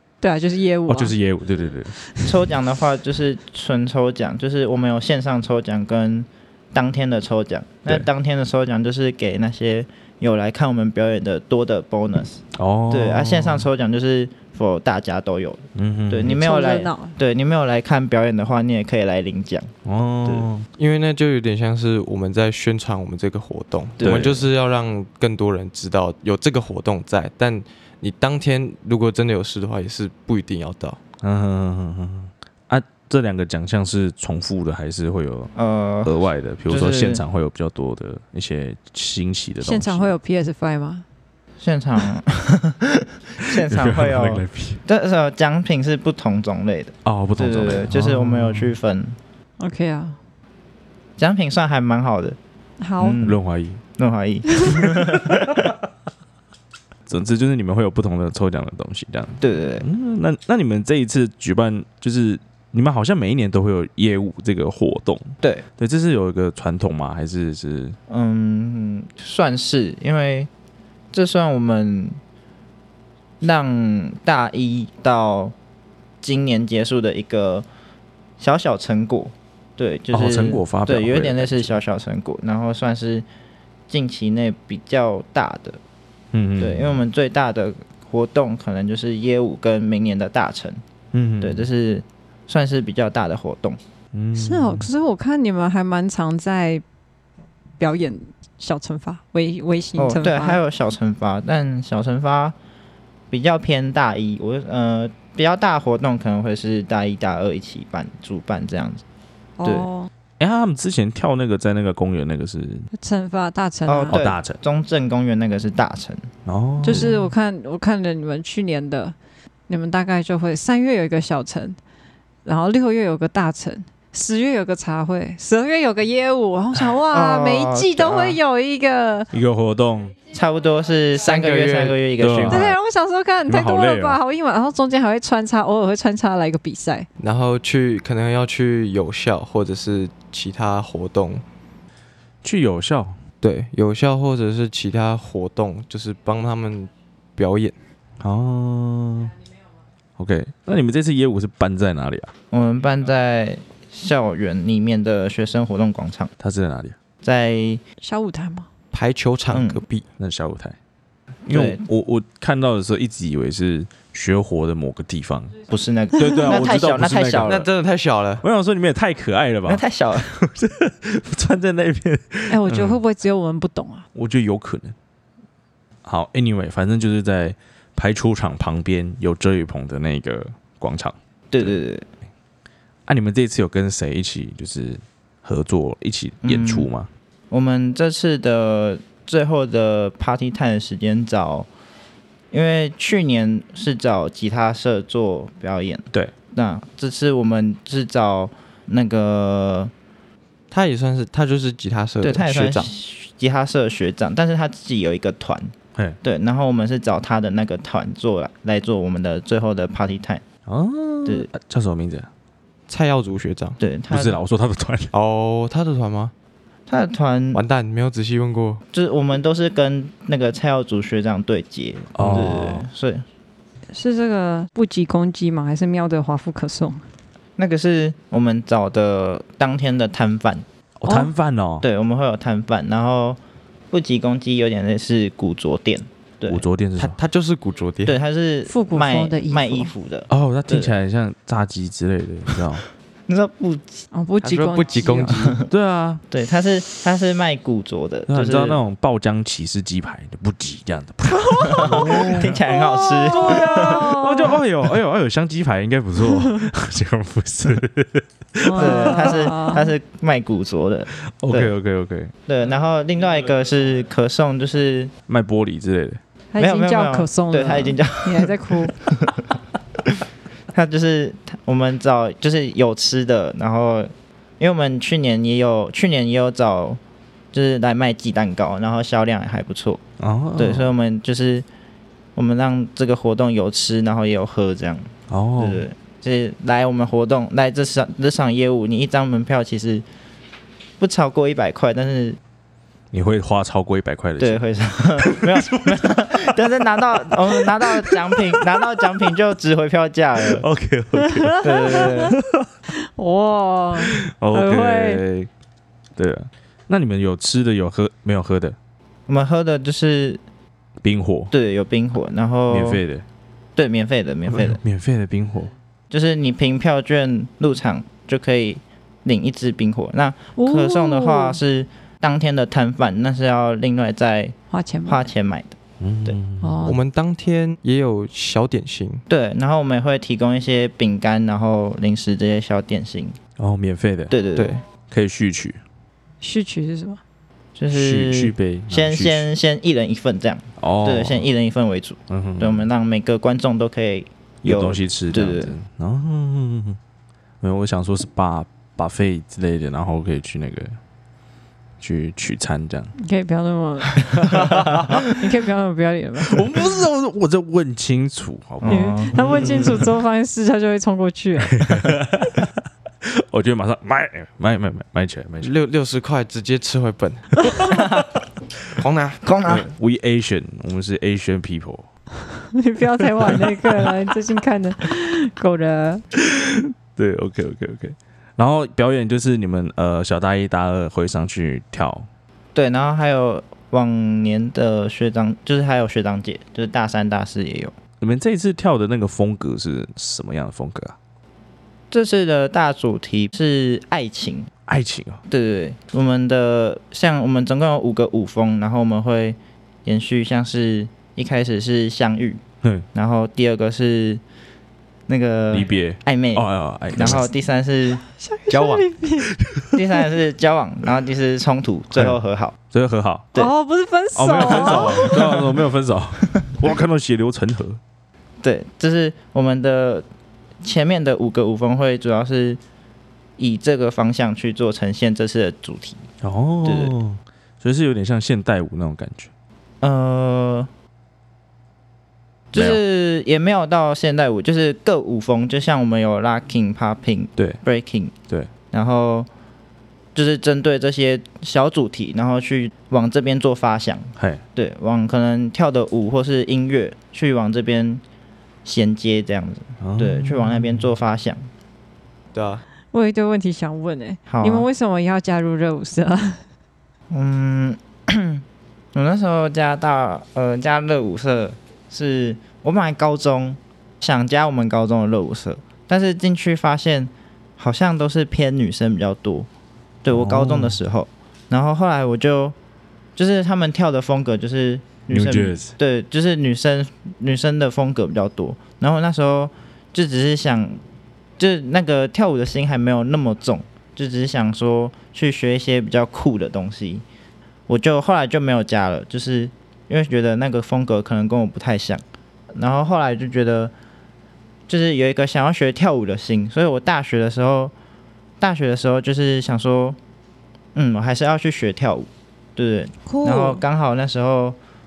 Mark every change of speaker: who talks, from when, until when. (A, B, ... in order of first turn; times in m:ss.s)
0:00.2-0:01.2 A
0:00.9-0:01.9 B
0:02.0-0:02.4 A
0:02.2-0:19.7 C
0:12.5-0:13.6 B
0:15.7-0:16.4 B
0:16.2-0:17.2 A
0:19.8-0:20.7 B
0:20.8-0:31.0 D
0:24.0-0:24.4 C
0:24.0-0:24.4 B
0:31.2-0:35.5 B
0:35.5-0:36.1 C
0:36.0-0:40.1 B
0:36.7-0:37.2 C
0:39.6-0:41.0 A
0:41.6-0:49.2 C
0:43.4-0:44.8 B
0:47.0-0:48.7 B
0:49.6-0:50.2 A
0:51.2-0:52.4 C
0:52.8-0:53.2 A
0:53.0-0:53.4 C
0:53.2-0:53.8 B
0:54.0-0:55.7 C
0:54.5-0:54.8 A
0:54.8-0:55.7 B
0:57.1-1:08.0 B
0:59.4-0:59.8 C
1:08.1-1:10.5 C
1:11.1-1:12.2 C
1:13.4-1:15.5 C
1:16.2-1:17.6 C
1:18.4-1:23.2 C
1:20.1-1:21.8 B
1:23.9-1:25.8 C
1:26.3-1:27.0 B
1:26.6-1:30.8 C
1:31.1-1:31.7 B
1:31.4-1:33.8 C
1:34.1-1:34.9 B
1:34.3-1:36.8 A
1:37.8-1:40.6 A
1:40.0-1:42.5 C
1:43.3-1:49.0 C
1:49.6-1:50.1 A
1:50.4-1:52.9 B
1:52.9-1:54.2 A
1:53.9-1:56.3 C
1:54.1-1:54.6 B
1:56.4-1:57.1 B
1:56.8-1:59.1 A
1:56.9-1:57.2 C
1:59.7-2:01.8 A
2:02.4-2:09.3 A
2:07.1-2:08.4 C
2:09.3-2:10.1 B
2:10.3-2:12.7 C
2:11.2-2:12.0 D
2:12.2-2:12.8 B
2:12.5-2:17.1 A
2:13.5-2:14.2 B
2:17.2-2:21.4 D
2:22.4-2:23.2 B
2:23.4-2:27.8 D
2:28.2-2:29.4 B
2:30.2-2:32.3 B
2:32.5-2:36.3 C
2:36.4-2:37.0 B
2:37.2-2:37.8 C
2:38.0-2:38.7 A
2:38.9-2:40.0 D
2:39.5-2:39.8 C
2:40.2-2:40.8 B
2:41.4-2:45.6 B
2:41.5-2:41.8 C
2:45.7-2:47.6 C
2:46.1-2:47.7 B
2:47.4-2:48.4 D
2:48.4-2:53.0 B
2:49.6-2:50.4 C
2:52.5-2:54.1 A
2:54.1-2:54.9 B
2:56.0-3:01.7 B
3:01.5-3:02.0 C
3:03.0-3:07.1 B
3:06.4-3:06.9 C
3:07.5-3:11.7 C
3:12.5-3:19.9 C
3:20.7-3:22.9 D
3:22.2-3:30.4 C
3:30.6-3:32.3 B
3:32.9-3:33.8 D
3:33.8-3:34.4 C
3:34.1-3:35.1 B
3:35.1-3:36.3 D
3:36.9-3:37.6 C
3:37.5-3:38.8 D
3:38.9-3:43.2 C
3:42.1-3:42.8 B
3:42.3-3:42.8 A
3:43.9-3:47.0 A
3:47.6-3:50.6 C
3:51.0-3:51.8 B
3:51.0-3:51.3 A
3:51.8-3:53.4 C
3:53.9-3:56.6 C
3:56.4-3:57.2 B
3:57.0-3:58.2 D
3:58.0-4:00.9 C
3:58.7-3:59.9 A
4:00.3-4:02.8 B
4:03.3-4:04.0 C
4:04.1-4:05.5 A
4:04.4-4:05.6 D
4:05.4-4:05.7 C
4:05.7-4:06.2 B
4:06.3-4:08.8 C
4:08.3-4:12.5 B
4:11.3-4:14.6 A
4:11.6-4:14.0 C
4:13.2-4:19.5 B
4:16.2-4:16.6 A
4:18.6-4:19.9 A
4:18.7-4:21.7 C
4:21.2-4:22.3 B
4:22.4-4:25.1 C
4:25.3-4:26.2 B
4:26.5-4:29.0 A
4:26.6-4:29.6 C
4:30.7-4:37.0 C
4:37.5-4:40.0 C
4:40.2-4:40.9 B
4:40.6-4:41.6 C
4:42.4-4:50.0 C
4:45.3-4:45.8 B
4:51.0-4:52.4 C
4:53.1-4:54.6 B
4:54.4-5:00.6 C
4:55.2-4:56.3 B
4:57.5-4:58.7 B
5:00.5-5:02.7 B
5:01.2-5:02.3 A
5:01.6-5:02.4 C
5:03.0-5:05.2 A
5:04.0-5:05.5 B
5:06.2-5:08.8 B
5:09.3-5:10.4 C
5:11.0-5:11.5 B
5:11.5-5:13.0 C
5:12.7-5:13.2 B
5:13.8-5:14.8 C
5:14.5-5:15.7 B
5:16.1-5:24.5 C
5:20.6-5:21.6 A
5:24.7-5:25.3 A
5:25.0-5:26.4 C
5:26.0-5:26.9 B
5:26.6-5:27.0 A
5:26.8-5:29.2 D
5:29.3-5:33.4 C
5:33.6-5:34.3 B
5:34.3-5:34.8 C
5:34.6-5:34.8 D
5:35.1-5:35.8 B
5:36.4-5:37.2 A
5:37.8-5:45.8 C
5:37.9-5:39.5 B
5:40.8-5:41.5 B
5:42.3-5:42.8 B
5:44.6-5:47.0 B
5:47.6-5:51.0 B
5:52.0-5:53.1 B
5:53.2-5:56.6 A
5:54.4-5:55.1 B
5:56.5-6:00.1 B
5:58.8-5:59.8 C
5:58.8-6:02.1 A
6:01.7-6:02.7 B
6:03.2-6:05.7 B
6:05.6-6:08.0 D
6:07.9-6:08.2 C
6:09.0-6:09.4 D
6:09.4-6:09.9 C
6:09.6-6:12.1 B
6:12.5-6:16.2 A
6:13.4-6:13.9 B
6:16.4-6:22.3 B
6:22.7-6:27.9 C
6:28.2-6:31.2 B
6:32.1-6:34.7 C
6:34.9-6:35.4 B
6:35.5-6:42.6 C
6:43.1-6:44.4 C
6:45.3-6:48.2 C
6:45.7-6:47.5 B
6:48.3-6:49.6 A
6:48.7-6:49.0 D
6:49.9-6:52.7 C
6:52.1-6:52.4 B
6:52.9-6:53.5 B
6:53.6-6:55.4 A
6:54.3-6:58.0 B
6:54.7-6:55.5 C
6:58.6-7:00.2 C
7:00.8-7:02.8 C
7:03.6-7:06.2 C
7:06.4-7:09.5 B
7:06.8-7:07.1 C
7:10.0-7:10.9 C
7:12.7-7:18.3 C
7:18.9-7:19.5 C
7:20.3-7:28.2 C
7:24.4-7:24.6 B
7:28.8-7:31.7 C
7:30.0-7:31.1 B
7:32.5-7:32.8 D
7:33.1-7:36.6 A
7:34.5-7:34.9 C
7:37.3-7:49.7 C
7:50.2-7:52.7 C
7:50.3-7:51.0 B
7:53.4-8:01.0 C
7:55.3-7:56.0 B
8:01.6-8:07.2 C
8:07.9-8:12.2 C
8:12.7-8:13.9 C
8:14.9-8:17.9 C
8:18.6-8:20.2 C
8:20.9-8:24.8 C
8:23.2-8:23.8 A